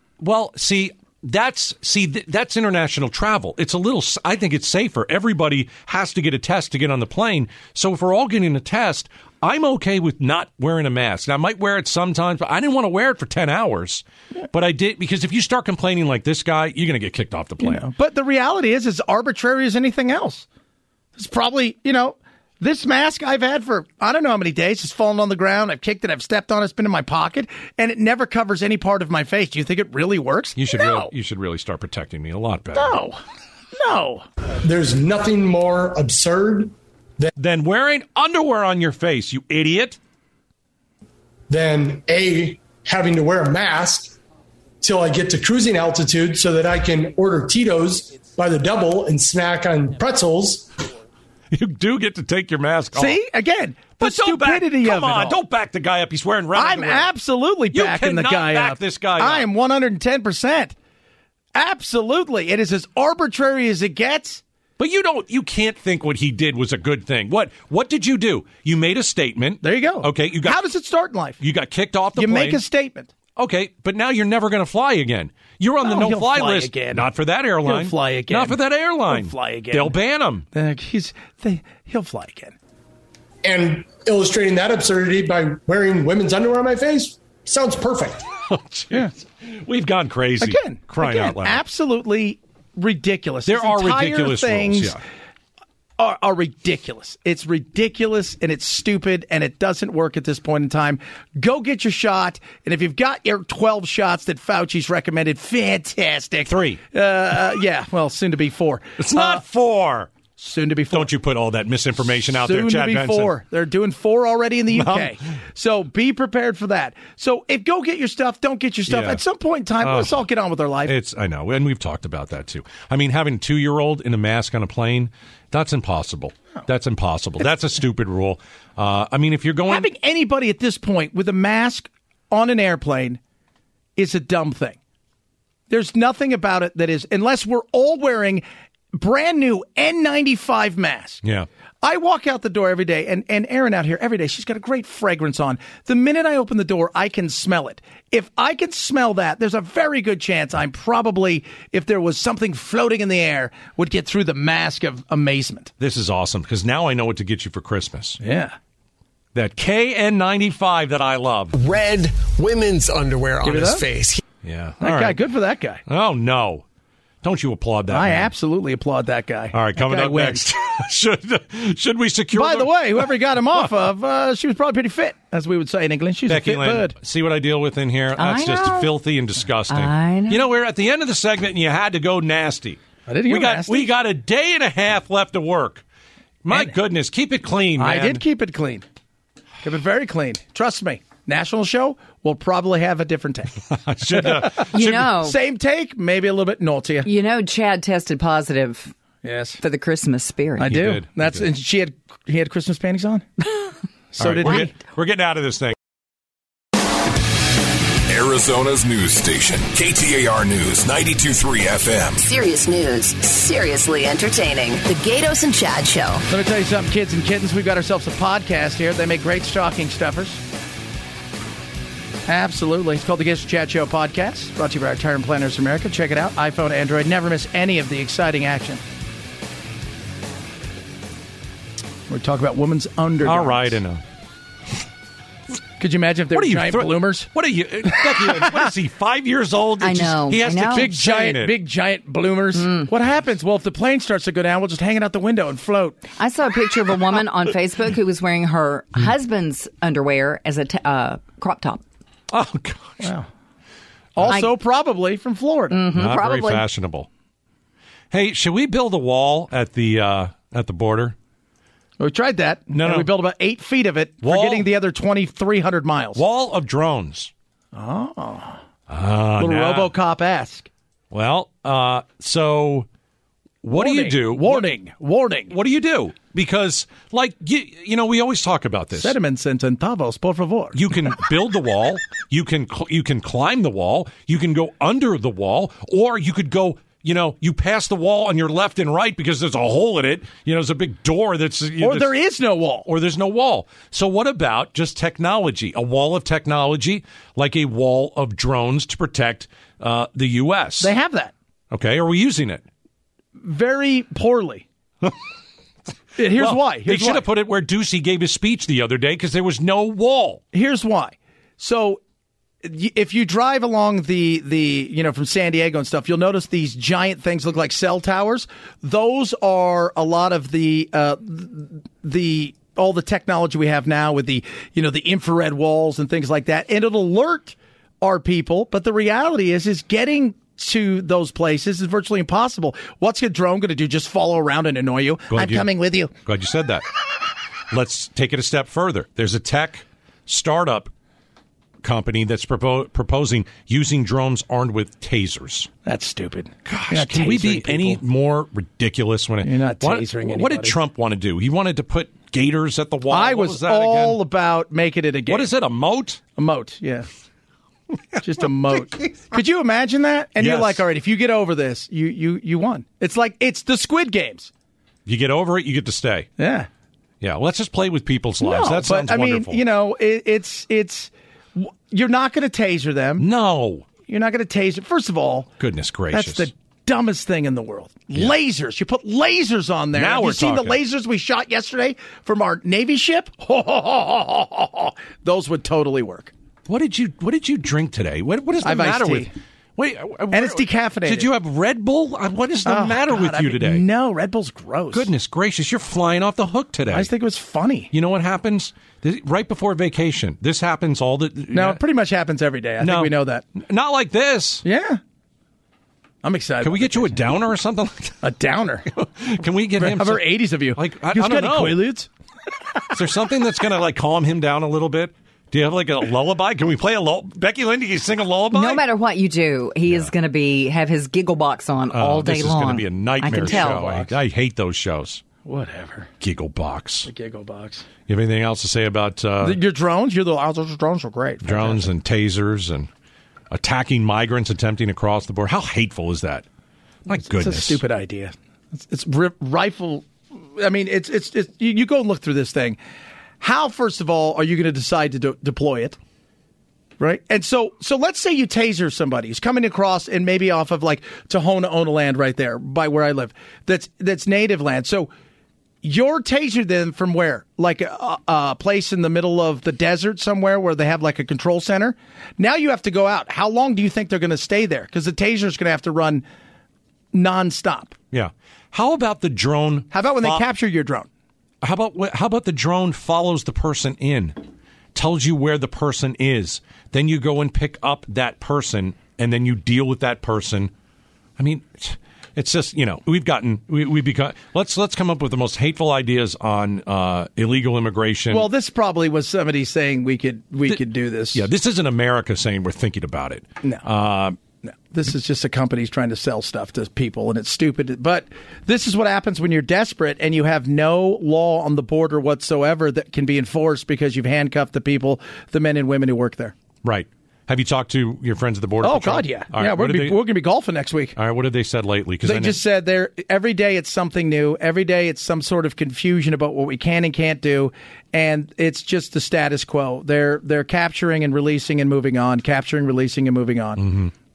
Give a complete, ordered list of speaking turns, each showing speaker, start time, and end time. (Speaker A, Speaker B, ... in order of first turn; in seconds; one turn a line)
Speaker A: 0.2-17.9
Speaker B: 17.6-20.4
Speaker B: 21.1-31.1
Speaker A: 30.6-33.0
Speaker B: 32.7-33.2
Speaker B: 33.8-34.2
Speaker C: 34.6-37.3
Speaker A: 37.4-40.0
Speaker C: 41.5-44.2
Speaker C: 44.8-50.8
Speaker A: 51.5-53.2
Speaker B: 52.9-55.4
Speaker A: 54.0-57.1
Speaker B: 56.5-60.7
Speaker A: 57.7-59.5
Speaker B: 61.5-64.4
Speaker A: 64.8-70.6
Speaker B: 69.6-71.4
Speaker A: 71.4-72.6
Speaker B: 72.2-73.1
Speaker A: 73.3-80.5
Speaker B: 75.8-77.1
Speaker B: 77.6-79.9
Speaker B: 80.5-82.5
Speaker C: 83.4-88.2
Speaker A: 88.5-91.6
Speaker B: 90.4-95.0
Speaker A: 93.5-95.0
Speaker B: 96.0-109.4
Speaker A: 106.5-106.8
Speaker A: 109.0-110.1
Speaker B: 110.4-111.1
Speaker A: 110.9-113.3
Speaker B: 112.4-120.9
Speaker A: 114.7-115.1
Speaker A: 118.9-119.2
Speaker A: 119.8-120.2
Speaker A: 120.8-129.9
Speaker B: 129.7-133.2
Speaker B: 133.9-134.8
Speaker B: 135.7-141.2
Speaker A: 141.2-141.5
Speaker B: 141.8-155.7
Speaker A: 155.8-158.2
Speaker B: 158.2-158.5
Speaker A: 159.3-161.5
Speaker D: 161.5-164.2
Speaker B: 163.4-163.8
Speaker A: 164.4-165.2
Speaker B: 164.8-165.8
Speaker A: 165.8-166.6
Speaker A: 167.2-168.3
Speaker B: 167.9-170.4
Speaker A: 169.5-173.6
Speaker B: 172.3-176.9
Speaker A: 176.3-185.8
Speaker E: 178.1-178.9
Speaker E: 179.7-180.5
Speaker B: 183.1-183.9
Speaker A: 186.4-188.2
Speaker B: 187.8-188.8
Speaker B: 189.6-197.1
Speaker A: 193.7-195.1
Speaker E: 194.6-195.4
Speaker E: 197.0-198.9
Speaker B: 199.2-199.6
Speaker E: 199.6-200.8
Speaker B: 200.6-203.3
Speaker A: 200.6-201.4
Speaker B: 204.1-204.7
Speaker A: 204.2-205.8
Speaker F: 208.1-212.2
Speaker G: 212.2-216.2
Speaker B: 216.3-220.4
Speaker B: 222.3-228.8
Speaker B: 232.1-233.8
Speaker A: 233.2-234.0
Speaker B: 235.8-237.3
Speaker A: 236.3-241.6
Speaker B: 237.9-238.7
Speaker E: 239.8-240.9
Speaker B: 240.6-246.0
Speaker E: 242.6-242.9
Speaker E: 246.2-251.8
Speaker A: 252.3-253.1
Speaker B: 253.0-253.3
Speaker B: 254.2-255.8
Speaker E: 254.3-254.6
Speaker E: 255.7-256.6
Speaker A: 255.9-257.1
Speaker A: 258.1-261.1
Speaker B: 262.0-266.2
Speaker A: 262.7-263.1
Speaker A: 264.2-264.7
Speaker A: 266.1-267.3
Speaker B: 267.7-268.6
Speaker A: 268.9-269.9
Speaker B: 269.4-270.7
Speaker A: 271.1-272.9
Speaker A: 273.6-274.7
Speaker B: 273.7-275.5
Speaker A: 275.5-279.1
Speaker B: 278.9-280.8
Speaker A: 280.7-292.1
Speaker B: 291.8-292.9
Speaker A: 292.9-300.9
Speaker B: 300.8-301.3
Speaker A: 301.7-302.6
Speaker B: 303.4-304.6
Speaker B: 306.1-307.2
Speaker A: 306.2-310.4
Speaker B: 310.5-312.0
Speaker B: 312.6-336.1
Speaker A: 335.3-336.8
Speaker A: 337.7-340.9
Speaker A: 341.8-345.7
Speaker B: 345.8-348.0
Speaker A: 346.6-354.2
Speaker B: 349.4-350.8
Speaker B: 353.1-355.5
Speaker A: 355.3-356.2
Speaker B: 356.4-357.1
Speaker B: 358.2-364.5
Speaker A: 360.4-360.8
Speaker A: 365.1-366.3
Speaker B: 366.4-366.7
Speaker A: 367.2-369.6
Speaker B: 368.4-373.3
Speaker A: 373.2-373.9
Speaker B: 374.1-375.5
Speaker A: 375.6-376.5
Speaker B: 376.1-386.3
Speaker A: 379.9-380.8
Speaker A: 386.7-393.8
Speaker B: 388.6-389.3
Speaker B: 390.3-391.3
Speaker B: 392.6-395.1
Speaker A: 394.9-397.1
Speaker B: 396.9-397.9
Speaker A: 397.9-401.8
Speaker B: 401.5-403.4
Speaker A: 402.8-404.6
Speaker B: 404.6-405.0
Speaker B: 406.2-407.3
Speaker A: 406.6-408.2
Speaker B: 408.2-408.9
Speaker A: 408.9-411.8
Speaker B: 409.8-412.1
Speaker A: 412.9-418.8
Speaker E: 418.5-423.9
Speaker A: 419.9-420.1
Speaker A: 421.9-425.2
Speaker B: 423.3-424.1
Speaker B: 425.4-426.1
Speaker A: 426.2-427.1
Speaker B: 427.0-427.8
Speaker A: 428.1-429.6
Speaker B: 429.4-431.9
Speaker A: 431.4-432.9
Speaker A: 433.5-436.5
Speaker A: 437.1-437.8
Speaker B: 437.2-442.8
Speaker B: 443.4-446.0
Speaker B: 447.0-455.1
Speaker B: 455.8-466.2
Speaker B: 467.1-467.9
Speaker A: 468.1-470.4
Speaker B: 469.9-471.1
Speaker A: 471.6-474.4
Speaker A: 474.9-480.7
Speaker A: 481.4-488.5
Speaker B: 488.3-491.4
Speaker A: 490.6-494.4
Speaker B: 494.6-506.5
Speaker A: 506.8-510.2
Speaker B: 508.8-511.1
Speaker A: 511.1-512.6
Speaker B: 512.2-523.9
Speaker A: 523.8-524.1